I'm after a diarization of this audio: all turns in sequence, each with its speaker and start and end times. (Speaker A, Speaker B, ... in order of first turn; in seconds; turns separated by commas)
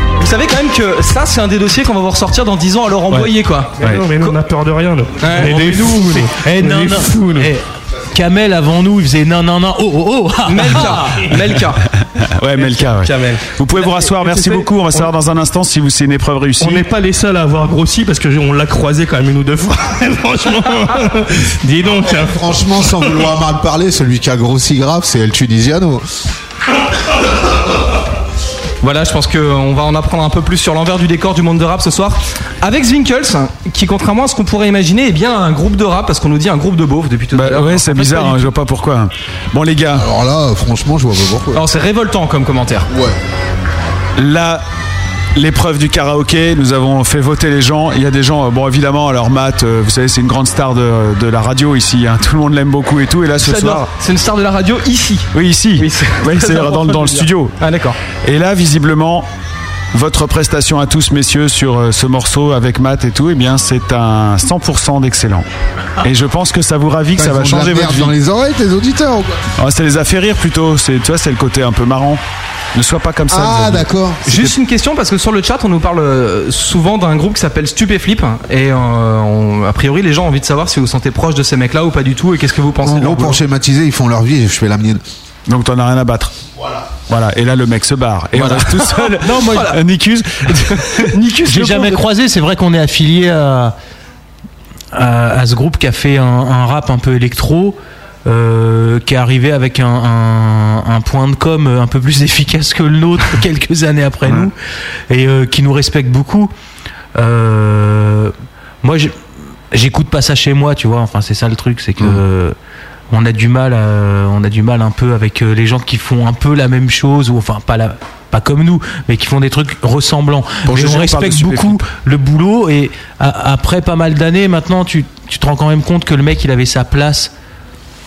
Speaker A: 0.2-3.7, Speaker B: 3.1-4.0, Speaker C: 3.8-7.5, Speaker A: 5.2-6.1, Speaker D: 5.5-10.9, Speaker A: 10.4-11.8, Speaker B: 12.0-16.9, Speaker C: 12.6-13.5, Speaker A: 14.2-14.7, Speaker C: 16.6-23.3, Speaker E: 22.0-26.0, Speaker A: 28.8-38.5, Speaker B: 37.3-40.0, Speaker E: 39.9-41.6, Speaker A: 41.5-42.9, Speaker E: 42.9-43.2, Speaker B: 44.2-44.6, Speaker B: 45.3-53.9, Speaker A: 53.4-58.0, Speaker B: 55.3-57.5, Speaker B: 58.1-59.3, Speaker B: 59.9-65.5, Speaker B: 66.0-68.2, Speaker E: 67.2-69.4, Speaker B: 69.6-72.2, Speaker B: 72.7-74.5, Speaker E: 73.3-74.3, Speaker A: 74.2-83.4, Speaker E: 82.8-85.0, Speaker B: 85.5-86.3, Speaker B: 87.1-91.1, Speaker A: 88.4-89.8, Speaker D: 89.2-89.8, Speaker A: 91.0-92.0, Speaker D: 91.4-93.7, Speaker D: 94.9-104.5, Speaker B: 104.2-104.5, Speaker D: 105.1-106.5, Speaker D: 107.2-109.2, Speaker D: 109.7-112.5, Speaker D: 113.1-127.3, Speaker B: 120.6-121.8